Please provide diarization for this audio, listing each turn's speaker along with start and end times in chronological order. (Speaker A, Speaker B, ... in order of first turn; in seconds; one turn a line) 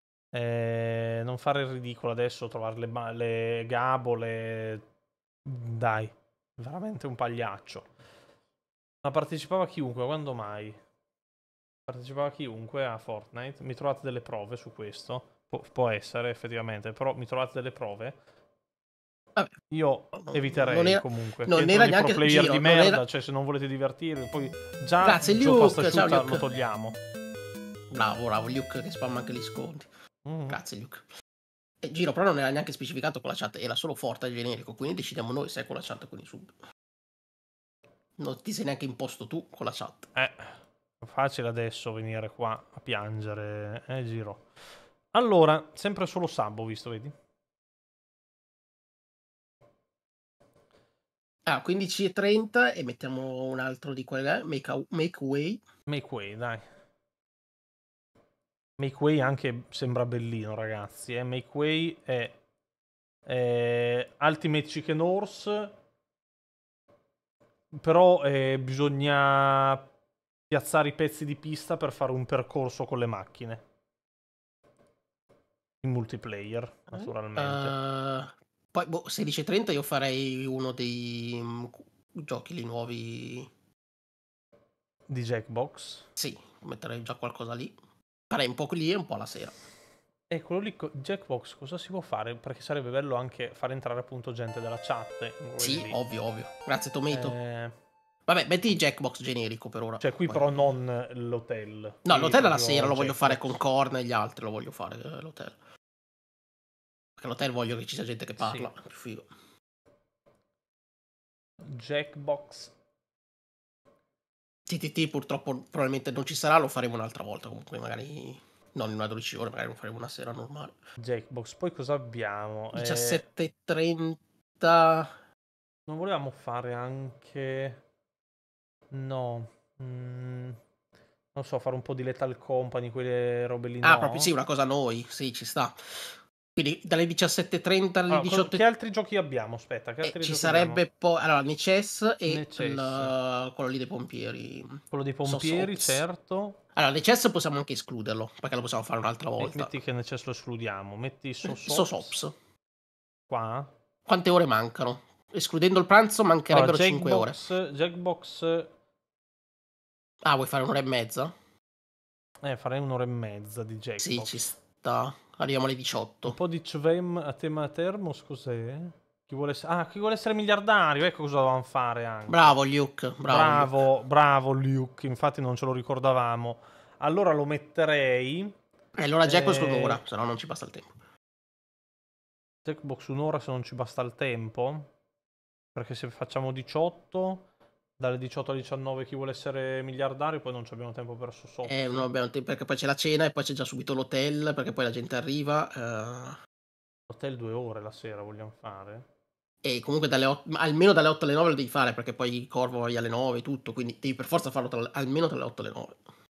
Speaker A: 0.3-4.8
Speaker A: 5.5-7.9
Speaker A: 9.0-10.8
Speaker A: 11.9-18.2
Speaker A: 19.7-27.0
Speaker B: 20.1-23.0
Speaker B: 25.0-26.4
Speaker B: 27.9-29.9
Speaker A: 30.2-30.6
Speaker B: 30.5-31.1
Speaker B: 31.8-36.6
Speaker B: 38.2-40.1
Speaker A: 40.1-44.5
Speaker A: 45.1-47.1
Speaker B: 51.5-55.6
Speaker A: 55.9-56.6
Speaker A: 58.8-62.4
Speaker A: 63.3-65.7
Speaker A: 67.7-69.9
Speaker A: 70.5-73.6
Speaker A: 75.8-77.8
Speaker B: 76.9-83.5
Speaker A: 85.1-86.1
Speaker B: 86.2-87.8
Speaker B: 88.3-89.6
Speaker A: 90.3-96.0
Speaker B: 95.6-97.4
Speaker A: 97.1-97.8
Speaker B: 98.3-100.7
Speaker A: 100.0-103.6
Speaker B: 102.1-105.6
Speaker B: 107.2-109.3
Speaker A: 108.4-108.7
Speaker A: 111.6-112.7
Speaker B: 114.7-120.8
Speaker A: 121.0-123.2
Speaker B: 122.7-125.2
Speaker A: 125.9-127.8
Speaker A: 128.9-130.6
Speaker A: 131.3-134.3
Speaker B: 133.8-138.6
Speaker A: 138.1-140.8
Speaker B: 140.0-146.0
Speaker A: 142.3-143.1
Speaker A: 144.9-146.6
Speaker B: 146.8-149.8
Speaker A: 149.4-152.2
Speaker B: 151.4-152.3
Speaker A: 153.3-153.7
Speaker B: 154.1-157.4
Speaker A: 156.5-158.7
Speaker B: 160.2-161.3
Speaker A: 162.4-164.5
Speaker B: 164.0-166.4
Speaker A: 166.2-172.6
Speaker B: 172.3-173.7
Speaker A: 173.3-178.6
Speaker B: 178.9-180.9
Speaker A: 179.2-180.0
Speaker A: 182.7-184.9
Speaker A: 185.8-187.5
Speaker A: 188.0-192.1
Speaker B: 191.7-196.4
Speaker A: 197.1-199.1
Speaker B: 199.6-206.0